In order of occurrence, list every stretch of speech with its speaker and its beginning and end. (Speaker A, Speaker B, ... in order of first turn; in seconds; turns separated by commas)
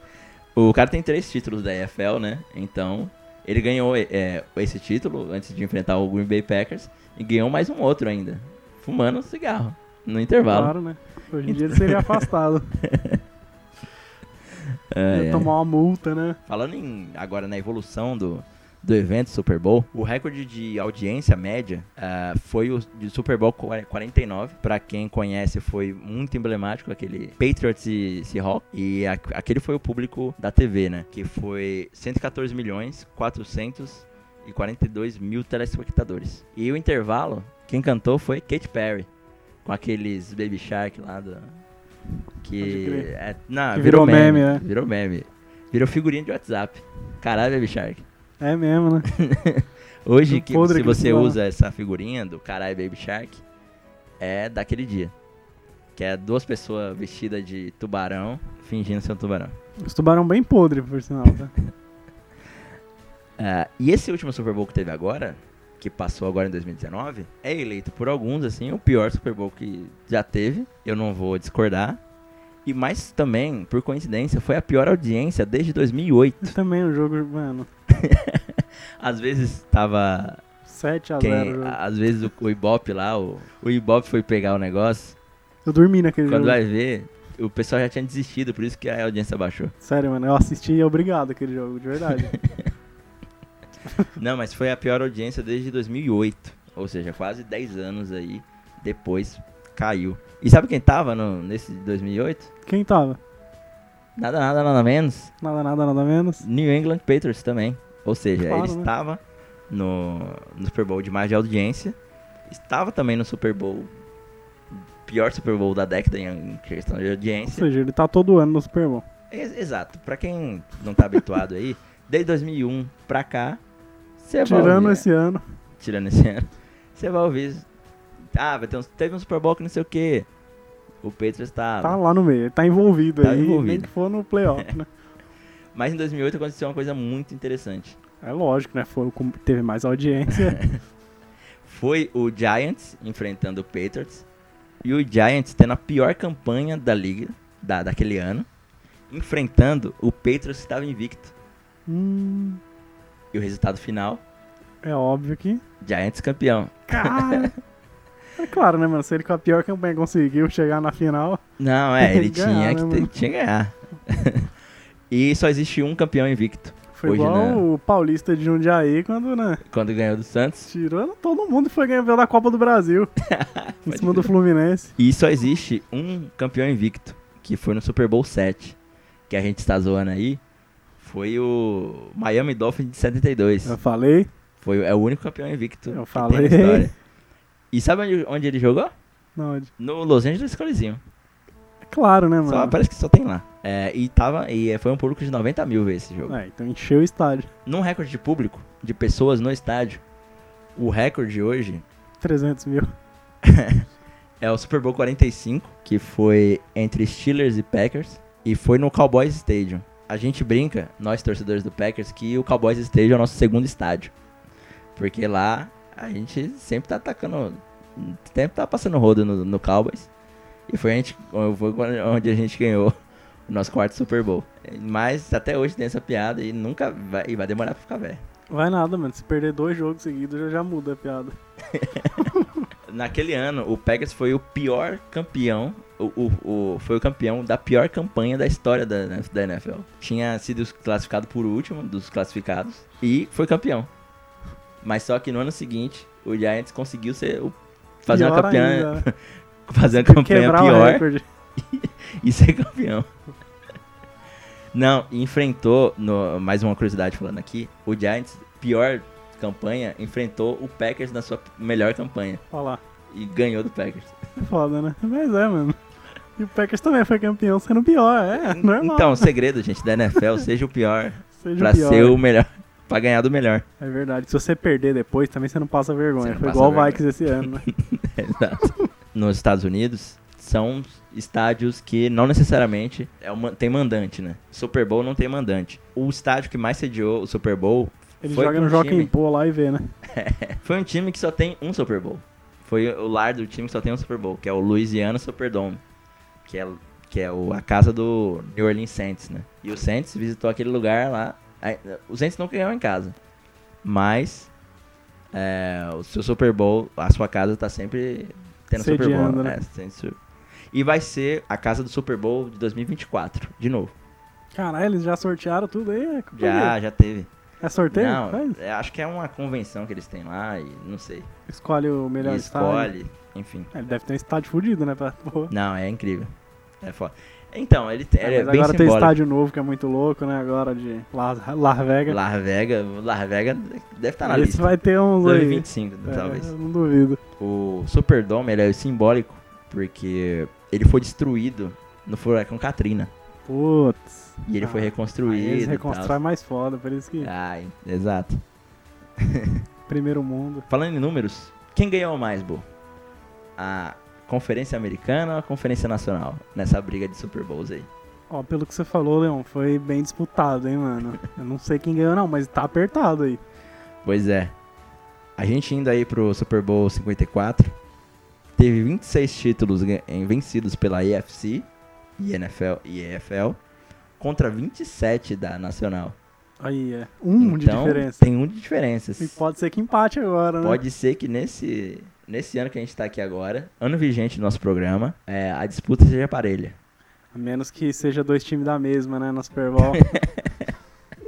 Speaker A: 0.6-10.7, Speaker B: 10.5-12.8, Speaker A: 11.5-12.3, Speaker A: 12.8-13.2, Speaker A: 14.6-15.5, Speaker B: 15.1-16.4, Speaker A: 16.5-39.1, Speaker A: 39.6-41.5, Speaker A: 42.4-48.0, Speaker B: 42.6-43.1, Speaker B: 43.7-44.6, Speaker B: 48.4-49.1, Speaker A: 49.1-53.4, Speaker B: 50.3-51.4, Speaker A: 54.2-55.1, Speaker A: 56.0-59.6, Speaker B: 59.8-61.5, Speaker A: 63.4-72.0, Speaker A: 72.7-76.5, Speaker B: 76.4-77.7, Speaker A: 77.9-80.4, Speaker B: 80.7-81.8, Speaker A: 81.2-85.2, Speaker B: 85.7-86.6, Speaker A: 86.3-89.7, Speaker B: 89.8-92.4, Speaker A: 92.2-92.7, Speaker A: 94.1-102.5, Speaker B: 102.7-103.2, Speaker A: 104.2-105.3, Speaker B: 105.4-106.5, Speaker A: 106.4-112.0, Speaker B: 108.4-108.9, Speaker A: 112.5-113.9, Speaker A: 114.7-117.7, Speaker B: 117.5-119.0, Speaker A: 119.3-123.6, Speaker A: 124.2-125.1, Speaker B: 124.4-125.4, Speaker A: 125.8-127.7, Speaker A: 128.3-130.3, Speaker A: 131.0-132.0, Speaker B: 131.8-134.9, Speaker A: 133.2-133.9, Speaker A: 135.7-138.0, Speaker B: 138.2-140.6, Speaker A: 140.3-140.8, Speaker A: 141.6-144.2, Speaker A: 144.8-148.5, Speaker A: 149.1-151.3, Speaker B: 151.9-152.6, Speaker A: 153.3-154.2, Speaker B: 154.8-155.6, Speaker A: 155.8-157.5, Speaker B: 156.9-157.5, Speaker B: 158.4-161.4, Speaker A: 161.6-164.5, Speaker B: 162.0-163.1, Speaker A: 165.1-167.7, Speaker B: 166.9-169.6, Speaker A: 169.7-170.7, Speaker B: 170.7-173.1, Speaker A: 173.2-174.3, Speaker B: 173.9-174.9, Speaker A: 175.0-178.8, Speaker A: 179.3-180.4, Speaker A: 181.0-183.8, Speaker B: 183.7-184.3, Speaker A: 184.6-186.9, Speaker B: 185.9-186.9, Speaker A: 187.7-188.9, Speaker B: 189.4-189.7, Speaker A: 189.8-191.0, Speaker B: 191.9-192.8, Speaker A: 192.5-196.4, Speaker B: 196.3-197.5, Speaker A: 197.7-200.0, Speaker A: 200.8-201.8, Speaker B: 202.2-202.9, Speaker A: 203.4-203.9, Speaker A: 204.4-214.1, Speaker A: 215.0-220.1, Speaker A: 220.7-222.9, Speaker A: 223.5-228.2, Speaker B: 228.5-231.4, Speaker A: 231.7-232.3, Speaker B: 232.2-232.5, Speaker A: 232.9-243.9, Speaker A: 244.8-251.1, Speaker B: 248.1-249.1, Speaker B: 250.0-251.2, Speaker A: 251.6-253.1, Speaker A: 254.7-262.4, Speaker B: 262.5-262.8, Speaker A: 263.1-264.2, Speaker B: 264.4-265.8, Speaker B: 266.4-269.3, Speaker A: 268.3-273.7, Speaker B: 271.4-272.2, Speaker B: 273.8-277.7, Speaker A: 276.2-289.1, Speaker B: 288.2-289.9, Speaker A: 290.1-295.8, Speaker A: 296.5-303.2, Speaker A: 303.8-304.5, Speaker A: 305.3-310.2, Speaker B: 308.8-309.6, Speaker A: 310.7-313.9, Speaker B: 314.5-316.8, Speaker A: 316.3-317.3, Speaker B: 317.6-318.6, Speaker A: 317.9-321.3, Speaker B: 321.5-322.9, Speaker A: 322.2-323.7, Speaker B: 323.7-325.5, Speaker A: 325.5-329.2, Speaker B: 328.2-332.2, Speaker A: 332.1-336.5, Speaker B: 334.2-337.2, Speaker A: 337.4-343.1, Speaker B: 343.5-347.3, Speaker A: 344.4-346.2, Speaker A: 347.2-348.4, Speaker A: 349.2-349.6, Speaker B: 349.9-350.7, Speaker A: 350.7-352.6, Speaker A: 353.6-357.9, Speaker B: 358.3-363.4, Speaker A: 364.0-364.5, Speaker A: 365.4-367.8, Speaker A: 368.6-373.6, Speaker A: 374.2-376.2, Speaker B: 376.6-378.3, Speaker A: 377.4-379.4, Speaker B: 379.2-380.8, Speaker A: 380.6-386.8, Speaker B: 387.3-390.1, Speaker A: 389.9-390.7